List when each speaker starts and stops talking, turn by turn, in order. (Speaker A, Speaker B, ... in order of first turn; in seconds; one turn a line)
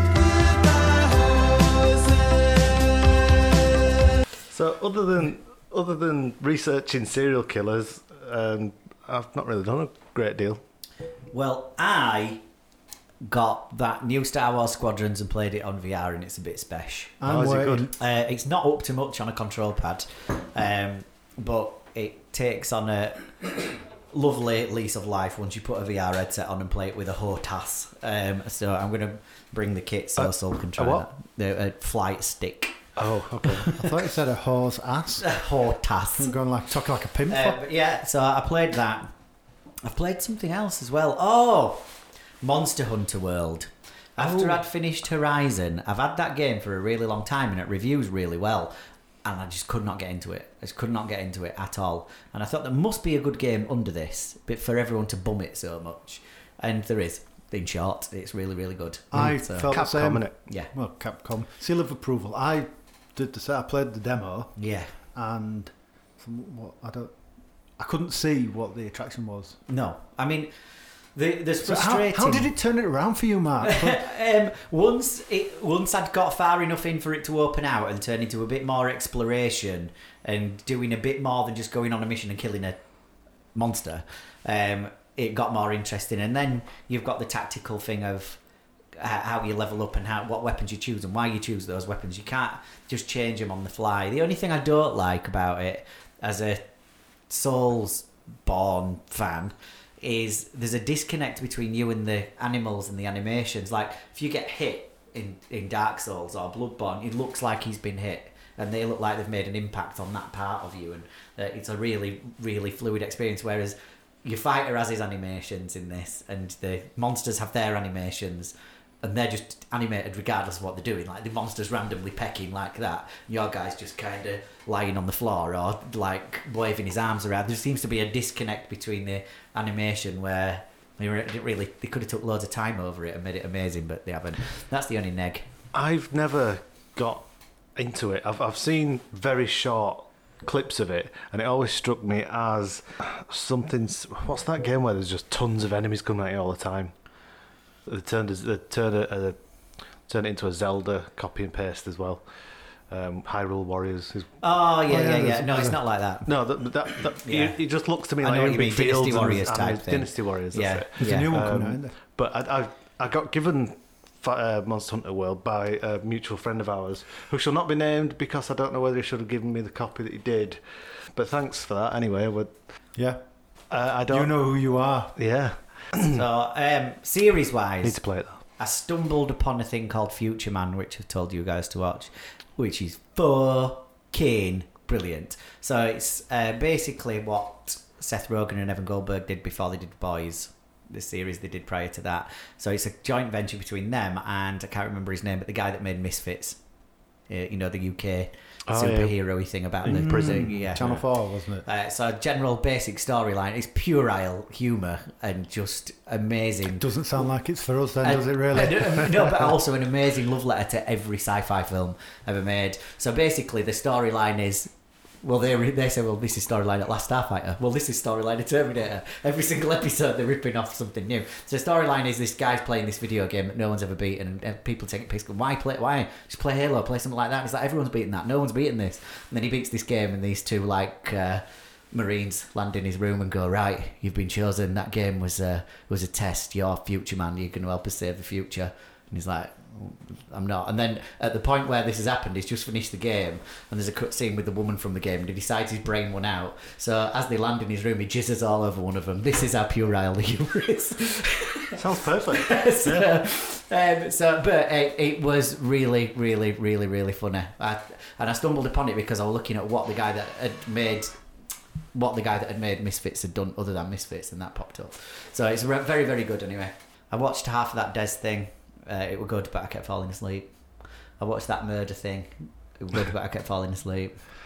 Speaker A: 4.5-10.6
Speaker B: 11.3-12.4
Speaker B: 13.2-17.2
Speaker C: 17.2-17.9
Speaker A: 17.2-17.9
Speaker B: 17.9-23.6
Speaker B: 24.1-32.8
Speaker A: 30.2-31.1
Speaker A: 33.0-34.0
Speaker C: 33.5-35.3
Speaker B: 35.2-36.4
Speaker C: 36.2-37.6
Speaker B: 37.3-39.1
Speaker B: 39.8-48.7
Speaker A: 44.2-44.6
Speaker B: 49.2-59.8
Speaker C: 59.1-64.5
Speaker A: 59.7-60.3
Speaker B: 64.6-64.9
Speaker C: 65.1-67.2
Speaker C: 67.8-69.6
Speaker B: 69.7-70.5
Speaker B: 71.2-72.5
Speaker C: 71.6-74.0
Speaker B: 73.6-82.8
Speaker B: 83.5-88.4
Speaker B: 89.0-96.7
Speaker B: 97.3-135.5
Speaker A: 135.7-137.2
Speaker A: 137.8-146.9
Speaker A: 147.9-149.4
Speaker A: 150.1-152.2
Speaker A: 152.9-170.6
Speaker B: 154.4-156.3
Speaker B: 157.2-157.6
Speaker B: 158.2-161.3
Speaker C: 161.0-161.9
Speaker A: 171.2-172.5
Speaker C: 173.0-173.2
Speaker A: 173.7-174.3
Speaker C: 174.1-175.2
Speaker A: 175.2-176.2
Speaker B: 176.0-178.0
Speaker A: 177.8-178.4
Speaker B: 178.6-196.6
Speaker B: 197.3-201.0
Speaker A: 198.7-199.1
Speaker A: 199.8-201.0
Speaker C: 200.0-201.7
Speaker B: 201.7-206.8
Speaker C: 206.8-209.4
Speaker B: 208.0-214.7
Speaker B: 215.2-261.2
Speaker A: 251.8-253.1
Speaker B: 261.9-270.5
Speaker B: 271.2-274.2